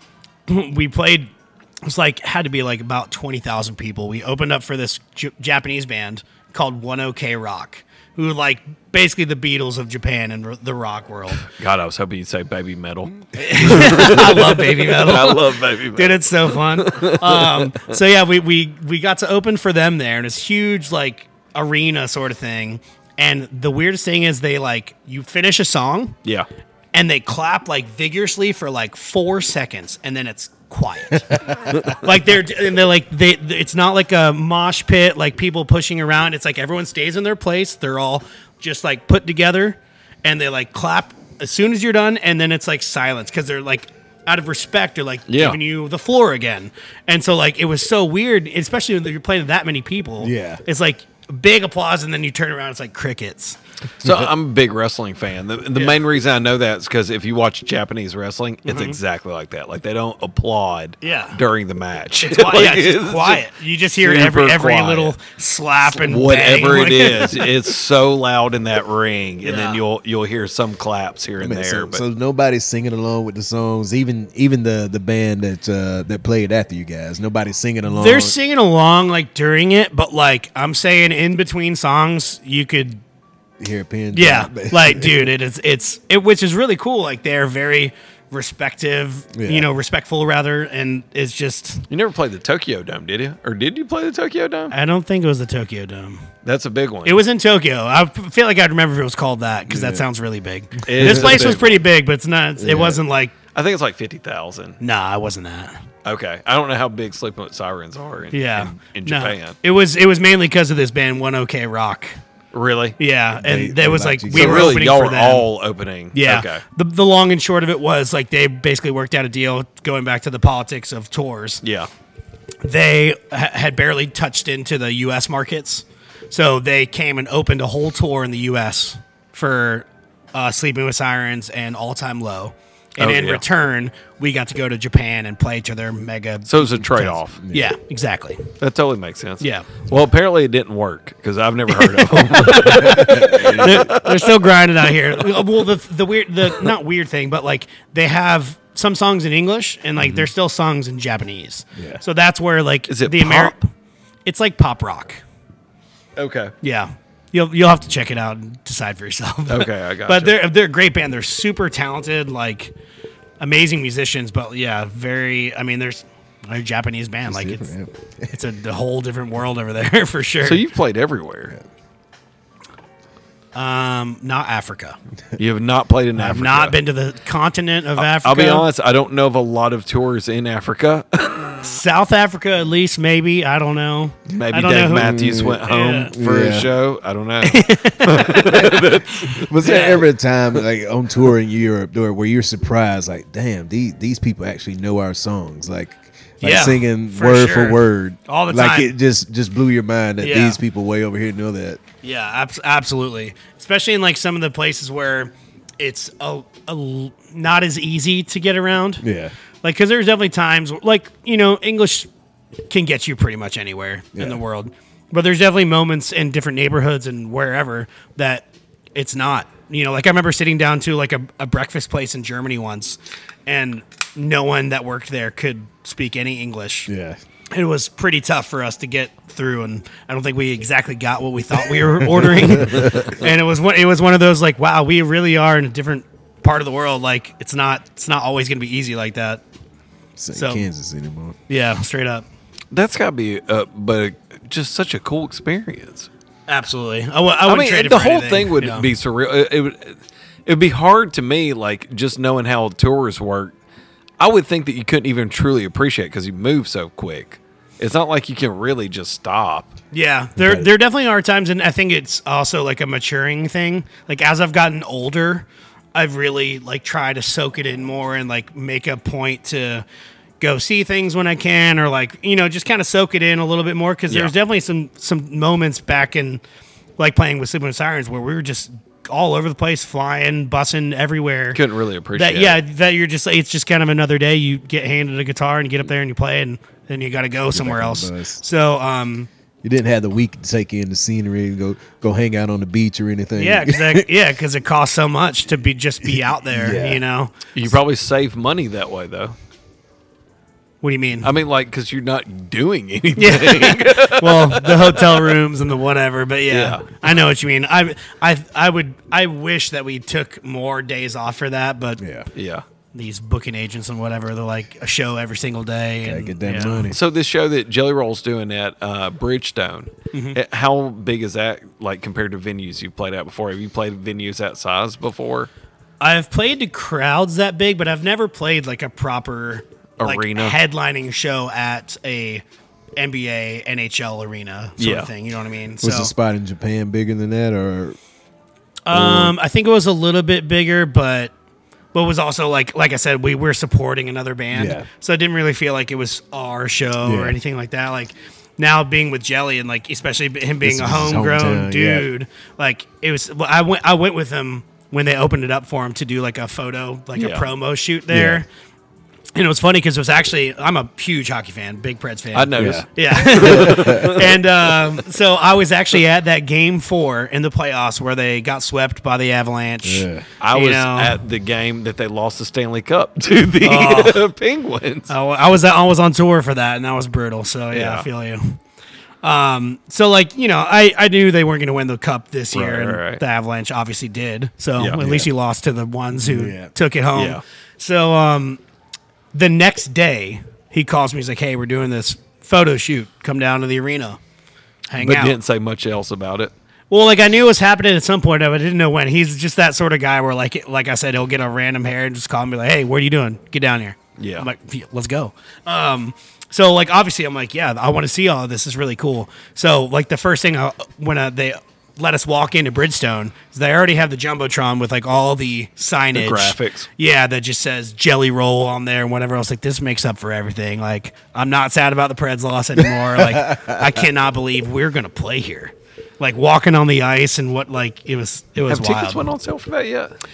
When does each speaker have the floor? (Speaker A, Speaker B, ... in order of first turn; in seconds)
Speaker A: 0.5-1.3, 1.8-11.5, 13.4-26.2, 26.9-53.6, 58.7-59.0, 61.0-61.4, 62.2-67.5, 69.4-69.8, 77.9-83.0, 84.1-91.8, 94.7-96.3, 97.0-103.3, 104.8-105.8, 108.3-112.2, 113.0-115.5, 116.1-121.6, 122.6-138.5, 139.4-139.8, 141.8-153.7, 154.3-155.2, 156.6-162.7, 163.4-167.7, 168.3-170.6, 173.6-175.0, 176.2-178.7, 181.6-186.1, 187.4-188.9, 189.6-190.0, 196.4-198.9, 200.2-200.6, 202.0-209.0, 209.6-212.1, 212.7-226.9, 227.5-239.4, 240.3-240.7, 241.5-242.2, 246.5-248.9, 259.9-269.9, 270.4-276.4, 277.0-281.6, 282.1-289.3, 293.4-297.7, 300.8-301.3, 303.2-312.0, 312.9-316.9, 320.1-320.4, 326.0-332.4, 333.0-336.1, 338.9-341.3, 341.9-358.5, 359.4-371.2, 373.6-374.2, 375.1-378.6, 379.2-388.6, 389.3-394.2, 394.9-395.4, 396.9-429.3
Speaker B: 11.4-17.9, 45.3-45.6, 54.0-63.4, 64.0-65.1, 65.9-72.0, 91.9-94.7, 96.5-97.2, 100.8-101.8, 103.5-104.8, 106.0-109.6, 112.5-113.0, 114.3-116.6, 121.6-121.9, 133.0-133.4, 136.5-137.4, 138.6-144.5, 152.9-153.6, 156.2-156.5, 159.5-160.4, 170.4-171.5, 175.4-176.8, 178.0-181.8, 184.3-190.0, 242.7-246.1, 247.5-253.5, 254.2-259.7, 281.5-282.6, 297.6-299.4, 301.2-305.4, 306.5-306.9, 312.4-312.6, 316.9-325.5, 330.0-330.6, 334.8-335.1, 357.2-357.5, 362.3-365.0, 370.4-375.1, 377.7-378.1, 382.5-383.2, 384.8-385.2, 387.1-387.4, 395.0-396.5, 404.2-404.5, 416.1-416.9, 428.7-430.1
Speaker C: 50.2-50.6, 54.0-54.3, 71.4-78.3, 83.6-85.3, 89.3-89.7, 99.7-100.0, 101.0-101.6, 102.6-103.0, 113.4-114.8, 137.4-137.7, 142.6-143.9, 151.8-152.0, 167.3-168.3, 184.9-186.7, 188.5-201.8, 209.0-209.3, 214.2-214.4, 226.9-227.2, 232.1-233.0, 240.2-241.4, 260.4-260.7, 287.5-288.4, 289.6-294.1, 296.4-297.0, 312.0-312.3, 316.0-317.0, 335.8-338.0, 338.9-339.3, 344.5-344.9, 347.0-347.4, 350.6-352.1, 358.1-358.4, 362.6-362.9, 363.4-364.1, 369.8-370.3, 386.2-386.7, 423.0-424.0